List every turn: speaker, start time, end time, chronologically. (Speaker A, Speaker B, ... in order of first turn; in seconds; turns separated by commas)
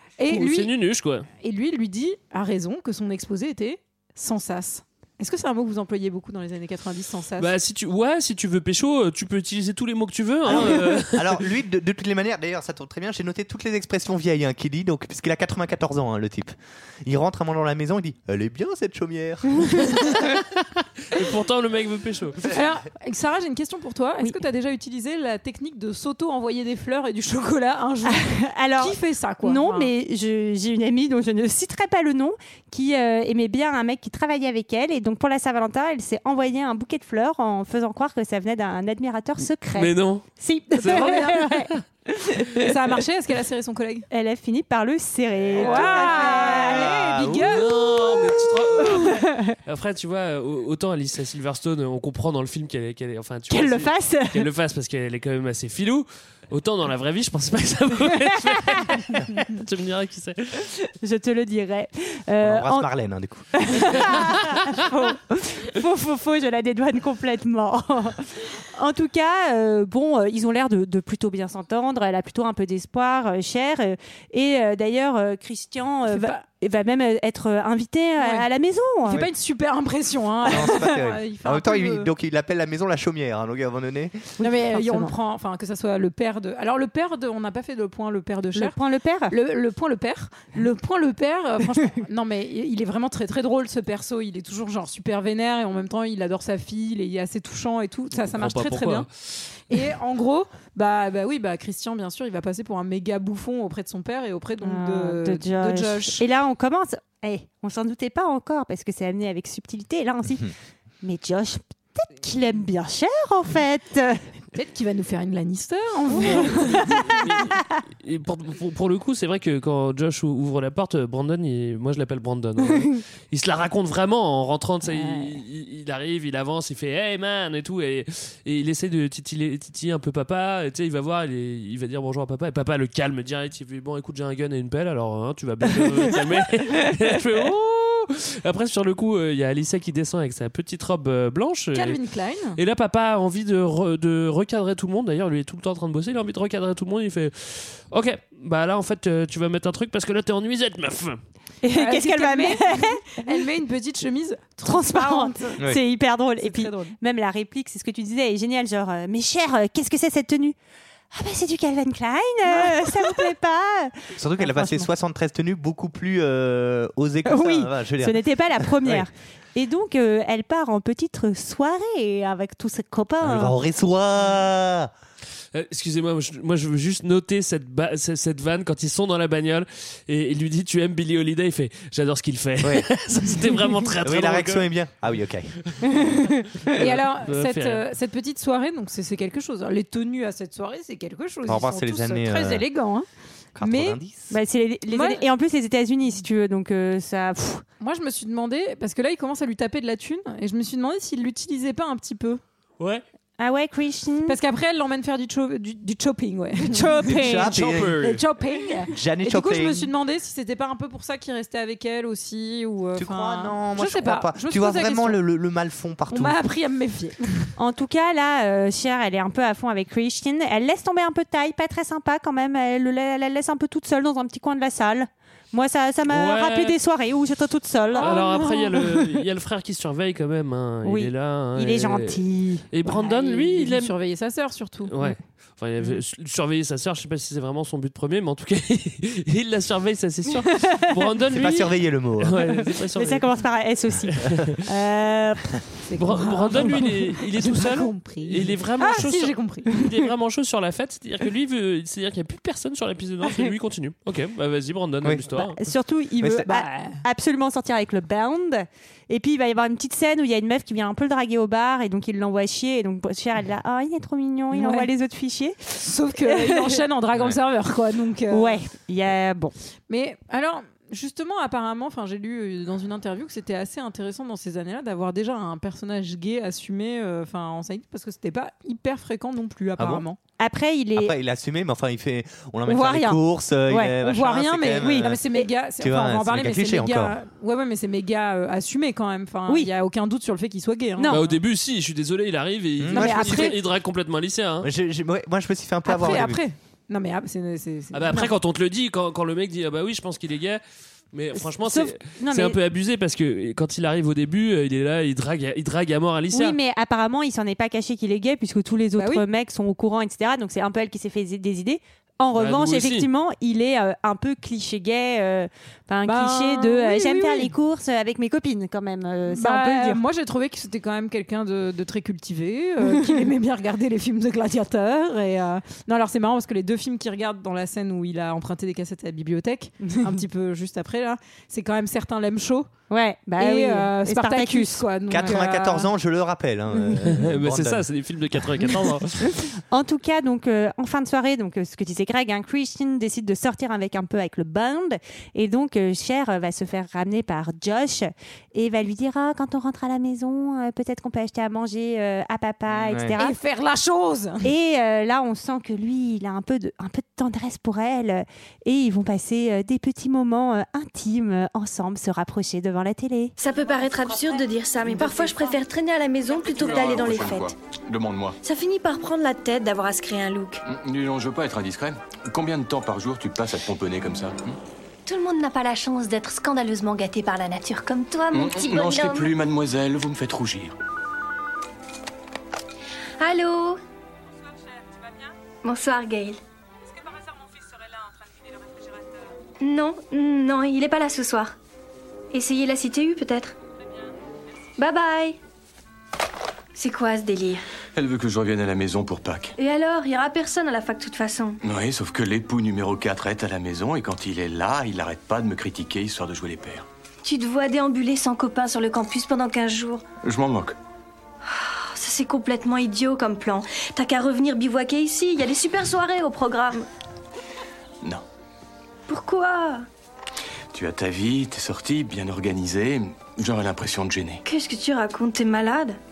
Speaker A: 0.2-0.7, Speaker B: 0.3-1.3, Speaker A: 1.4-7.5, Speaker B: 7.4-11.5, Speaker C: 10.4-16.5, Speaker C: 17.0-20.3, Speaker B: 21.1-22.5, Speaker A: 22.5-29.9, Speaker D: 28.1-42.6, Speaker B: 39.7-40.2, Speaker B: 40.8-41.8, Speaker A: 40.8-41.4, Speaker A: 42.6-44.1, Speaker D: 44.1-47.0, Speaker A: 45.5-48.9, Speaker C: 46.9-47.4, Speaker B: 47.3-60.7, Speaker D: 49.0-49.5, Speaker D: 53.5-54.5, Speaker D: 61.0-62.9, Speaker C: 62.4-64.2, Speaker D: 63.5-79.2, Speaker A: 76.1-76.4, Speaker A: 78.2-78.5, Speaker A: 79.0-82.1, Speaker C: 80.5-84.3, Speaker D: 84.4-85.1, Speaker A: 84.4-88.8, Speaker D: 88.5-89.3, Speaker A: 89.3-99.1, Speaker B: 98.2-99.1, Speaker A: 99.7-106.2, Speaker D: 104.6-110.5, Speaker D: 111.0-114.2, Speaker A: 114.5-117.2, Speaker D: 116.2-116.9, Speaker B: 116.2-142.0, Speaker D: 124.9-125.3, Speaker A: 141.7-142.6, Speaker B: 142.6-151.2, Speaker D: 151.6-153.0, Speaker A: 151.7-155.6, Speaker D: 154.6-160.5, Speaker A: 156.4-156.9, Speaker D: 161.1-164.9, Speaker A: 162.5-163.2, Speaker C: 164.1-169.1, Speaker D: 167.2-173.6, Speaker C: 173.2-174.9, Speaker B: 175.5-184.7, Speaker C: 182.6-182.9, Speaker C: 184.0-185.5, Speaker D: 185.9-186.4, Speaker B: 186.6-187.8, Speaker A: 186.7-193.1, Speaker C: 191.4-192.7, Speaker C: 193.6-194.3, Speaker A: 193.6-194.0, Speaker D: 194.3-197.6, Speaker A: 194.9-195.2, Speaker A: 197.8-202.4, Speaker D: 203.4-204.4, Speaker A: 204.2-215.2, Speaker D: 206.7-207.5, Speaker C: 207.0-208.2, Speaker B: 207.4-208.2, Speaker C: 208.9-209.9, Speaker C: 212.9-216.4, Speaker A: 216.1-217.4, Speaker D: 217.6-228.2, Speaker B: 226.1-226.8, Speaker A: 227.9-228.9, Speaker B: 228.0-233.9, Speaker D: 230.8-232.7, Speaker A: 232.8-234.9, Speaker B: 234.9-243.3, Speaker D: 240.5-240.8, Speaker C: 241.3-242.5, Speaker D: 242.9-245.6, Speaker B: 244.2-244.6, Speaker A: 245.9-249.7, Speaker B: 246.0-255.6, Speaker D: 255.3-266.8, Speaker C: 256.2-256.5, Speaker A: 256.5-257.0, Speaker A: 264.5-264.9, Speaker A: 265.8-268.6, Speaker D: 268.3-269.5, Speaker A: 269.9-280.2, Speaker C: 279.8-280.0, Speaker D: 280.4-281.1, Speaker C: 280.9-285.2, Speaker D: 282.6-283.9, Speaker A: 284.0-291.4, Speaker C: 285.8-287.2, Speaker D: 291.0-291.2, Speaker B: 291.1-294.7, Speaker C: 292.8-293.6, Speaker A: 292.9-293.6, Speaker C: 294.6-296.4, Speaker A: 295.9-298.3, Speaker B: 297.9-300.6, Speaker B: 301.1-306.6, Speaker D: 301.6-302.6, Speaker D: 306.3-320.0, Speaker A: 308.9-309.2, Speaker B: 312.3-313.1, Speaker A: 316.0-317.5, Speaker A: 319.3-332.7, Speaker D: 322.9-323.2, Speaker D: 329.9-330.2, Speaker D: 332.9-335.4, Speaker A: 333.4-335.9, Speaker C: 335.1-338.7, Speaker B: 337.0-339.3, Speaker D: 339.7-353.4, Speaker C: 352.7-353.1, Speaker A: 353.1-354.5, Speaker D: 354.4-363.3, Speaker E: 363.4-367.5, Speaker F: 366.4-368.4, Speaker E: 368.4-370.6, Speaker F: 370.6-374.6, Speaker E: 375.1-379.3, Speaker F: 378.3-380.7, Speaker E: 383.2-383.8, Speaker E: 385.6-386.4, Speaker A: 387.0-388.6, Speaker E: 389.6-391.5, Speaker E: 392.3-393.5, Speaker E: 394.8-395.4, Speaker E: 396.7-397.6, Speaker F: 397.9-399.5, Speaker E: 399.6-401.6, Speaker F: 401.6-406.9, Speaker E: 407.2-410.0, Speaker F: 410.2-410.8, Speaker E: 411.4-416.9, Speaker E: 419.1-419.9, Speaker F: 420.7-424.4, Speaker E: 424.4-426.0